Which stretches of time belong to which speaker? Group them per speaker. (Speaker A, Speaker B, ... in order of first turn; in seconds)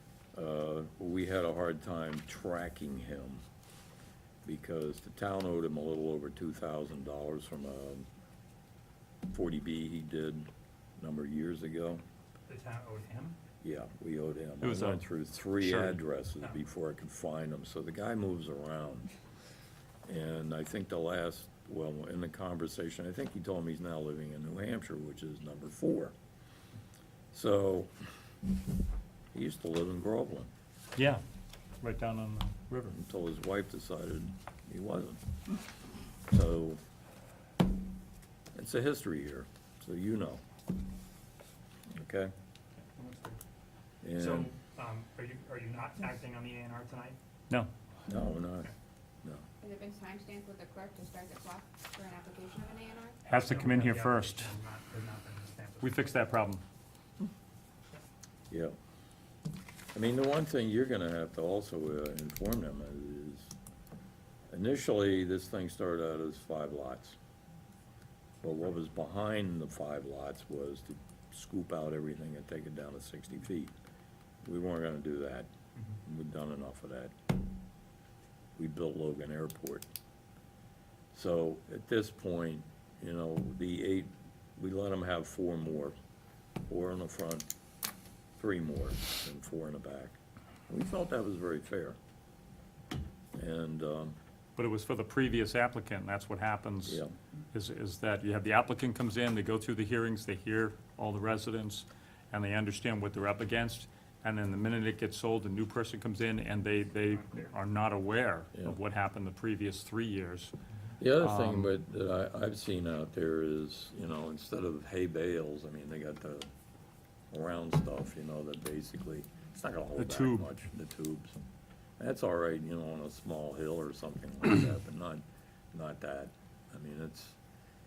Speaker A: 0.3-3.4, 4.5-8.1, 9.3-12.0, 13.6-19.1, 20.1-26.1, 27.3-27.9, 29.3-30.5, 32.9-35.2, 36.3-36.8, 38.5-40.4, 41.9-42.3, 44.0-44.5, 48.1-48.7, 58.5-58.8, 60.0-63.5, 64.5-67.2, 68.4-73.7, 74.4-75.5, 76.0-77.2, 78.6-79.9, 81.1-86.0, 86.7-87.5, 88.4-90.2, 90.7-92.0, 93.4-94.2, 96.9-97.1, 111.0-116.5, 117.3-121.4, 122.0-127.4
Speaker B: 12.5-13.4, 43.0-43.4, 44.1-47.2, 53.4-56.3
Speaker C: 14.6-15.1, 15.6-16.0, 31.0-31.2, 31.8-33.0, 53.3-54.5, 55.8-56.6, 94.6-110.5, 111.2-111.7, 120.0-120.5
Speaker D: 49.6-53.2